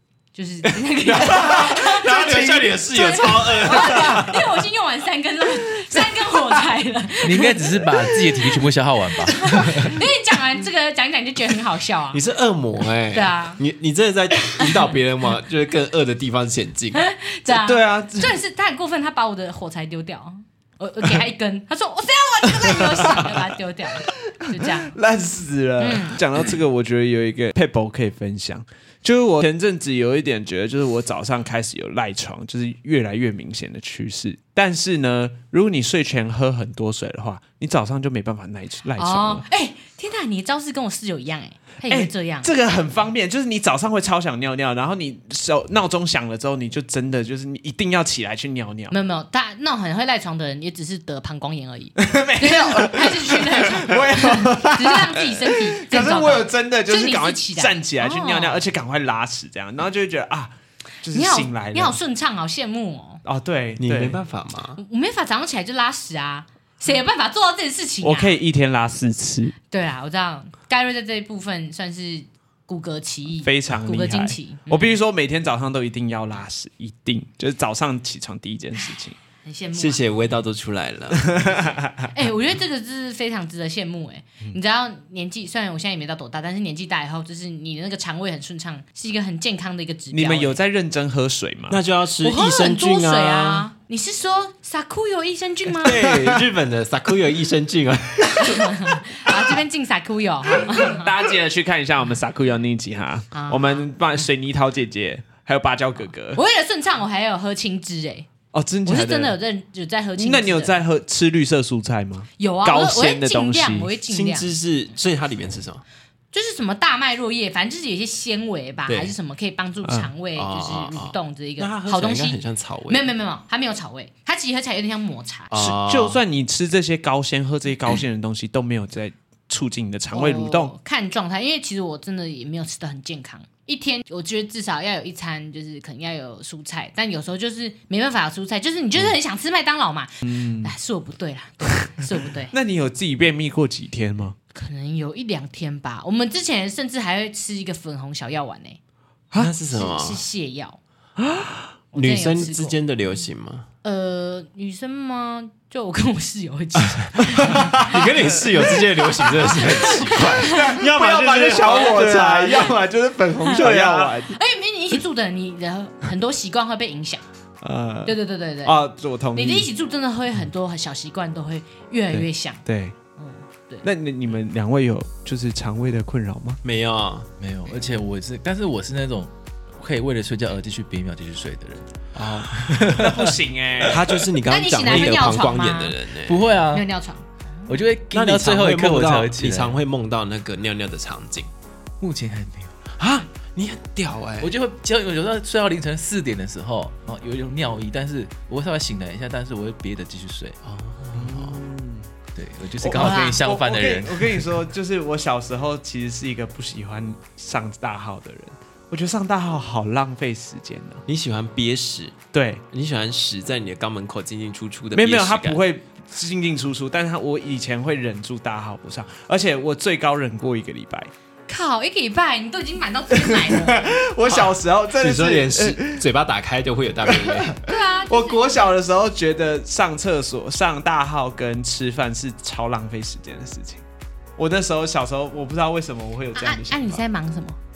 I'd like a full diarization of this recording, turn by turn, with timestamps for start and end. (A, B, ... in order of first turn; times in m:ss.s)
0:00.3-0:08.6 A
0:01.1-0:04.4 B
0:01.4-0:02.7 C
0:03.8-0:04.1 C
0:07.2-0:09.9 D
0:09.3-0:12.2 A
0:12.1-0:17.0 B
0:13.1-0:13.6 A
0:17.0-0:25.0 A
0:17.5-0:18.4 C
0:22.7-0:23.3 C
0:24.5-0:39.4 C
0:25.8-0:26.2 A
0:39.0-0:42.5 A
0:41.9-0:49.0 C
0:48.9-0:58.6 A
0:52.0-1:02.0 C
1:01.1-1:03.2 A
1:03.2-1:04.2 C
1:03.8-1:04.8 B
1:04.8-1:08.4 A
1:08.0-1:09.6 C
1:09.7-1:15.0 A
1:13.4-1:19.2 C
1:18.8-1:20.0 A
1:19.8-1:21.8 B
1:21.4-1:22.1 C
1:22.1-1:30.6 A
1:30.1-1:31.8 C
1:31.7-1:33.7 B
1:32.2-1:36.0 A
1:35.8-1:38.7 B
1:36.0-1:36.4 C
1:38.4-1:41.1 A
1:40.6-1:46.4 C
1:43.3-1:44.3 A
1:46.4-1:48.3 A
1:48.5-1:49.4 C
1:48.9-1:50.8 A
1:50.2-1:53.9 C
1:52.4-1:54.5 A
1:54.1-1:55.8 B
1:56.3-2:05.5 A
1:58.9-1:59.1 B
1:59.8-2:00.1 C
2:00.4-2:03.1 B
2:05.5-2:06.2 B
2:05.6-2:10.7 C
2:10.1-2:22.6 A
2:20.2-2:20.7 C
2:22.5-2:24.4 C
2:24.5-2:28.8 A
2:29.4-2:30.2 B
2:29.7-2:30.8 A
2:31.2-2:31.7 C
2:31.9-2:32.8 A
2:31.9-2:33.7 B
2:33.8-2:38.1 A
2:37.2-2:38.0 C
2:37.4-2:42.9 B
2:38.6-2:40.8 A
2:40.2-2:44.4 C
2:43.4-2:44.2 B
2:44.3-2:47.2 A
2:47.6-2:49.7 C
2:48.0-2:52.6 A
2:52.1-2:53.0 C
2:53.2-2:53.9 A
2:53.8-2:56.6 C
2:56.6-2:57.3 B
2:57.4-3:03.4 D
3:02.2-3:04.1 C
3:03.8-3:06.4 B
3:04.5-3:06.0 A
3:06.2-3:06.9 D
3:06.7-3:07.2 A
3:07.7-3:09.8 D
3:08.1-3:11.5 B
3:12.0-3:12.7 D
3:13.0-3:14.5 B
3:14.4-3:20.6 D
3:20.6-3:21.6 B
3:21.1-3:22.1 C
3:22.3-3:24.5 D
3:22.8-3:31.0 C
3:23.0-3:23.4 A
3:31.1-3:32.2 B
3:32.3-3:32.6 C
3:32.7-3:35.6 B
3:35.0-3:41.1 C
3:41.5-3:44.0 A
3:43.2-3:46.0 C
3:44.3-3:47.6 B
3:47.1-3:53.8 C
3:47.6-3:48.4 A
3:54.4-3:57.0 C
3:56.4-3:57.6 A